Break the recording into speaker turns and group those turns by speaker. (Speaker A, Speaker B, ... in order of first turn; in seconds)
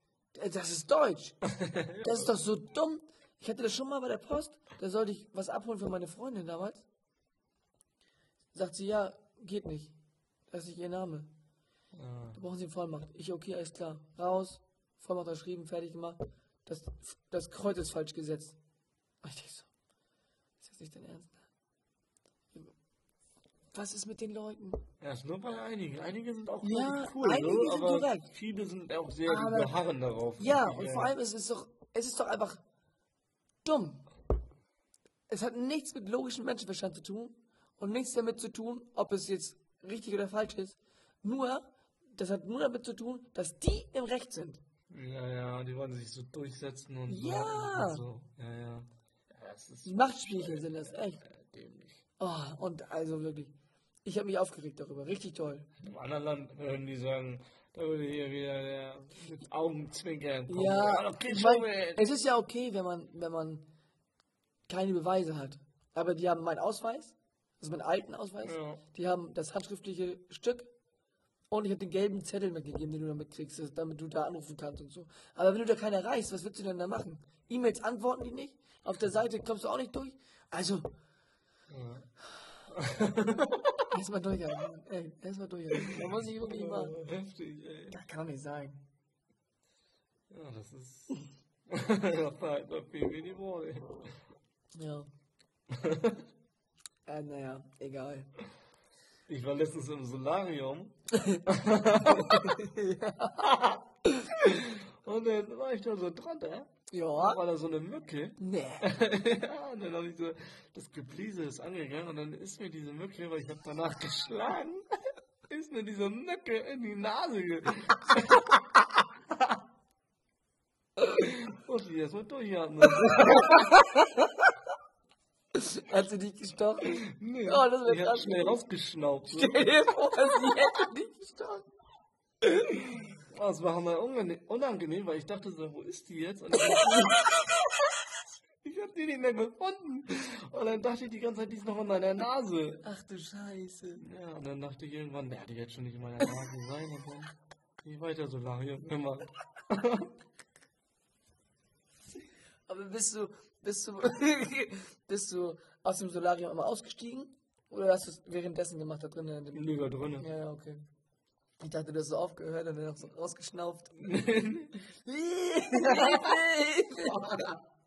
Speaker A: 0.3-1.4, 2.0-6.8, 8.5-9.9, 10.5-11.3, 12.3-18.6, 19.2-19.7, 20.6-21.4, 23.7-24.8, 26.6-28.3, 29.2-29.8, 30.4-32.6, 33.6-34.0, 35.3-44.6, 47.1-48.0, 49.9-51.2, 52.2-53.5, 54.0-55.7, 60.5-63.6, 64.7-70.7, 71.5-80.9, 83.9-86.9, 87.9-88.8, 94.8-95.1, 97.1-98.3, 101.1-101.5, 102.0-103.5, 106.9-107.4, 108.4-108.9, 123.0-124.5, 125.5-128.6, 129.3-131.7, 132.4-132.8, 136.6-137.4, 142.8-144.0, 152.7-159.7, 160.2-160.8, 161.6-164.1, 164.9-167.3
Speaker B: 1.5-2.3, 11.9-12.4, 25.0-31.1, 44.9-52.0, 55.8-62.1, 68.4-68.8, 81.7-82.1, 82.7-83.9, 85.7-88.0, 90.3-94.2, 95.7-96.2, 99.3-102.6, 103.4-114.9, 115.5-119.6, 121.1-123.8, 126.9-130.6, 132.7-137.3, 138.6-142.8, 144.0-150.1, 159.5-160.3, 164.0-164.7, 165.8-166.4, 167.1-167.6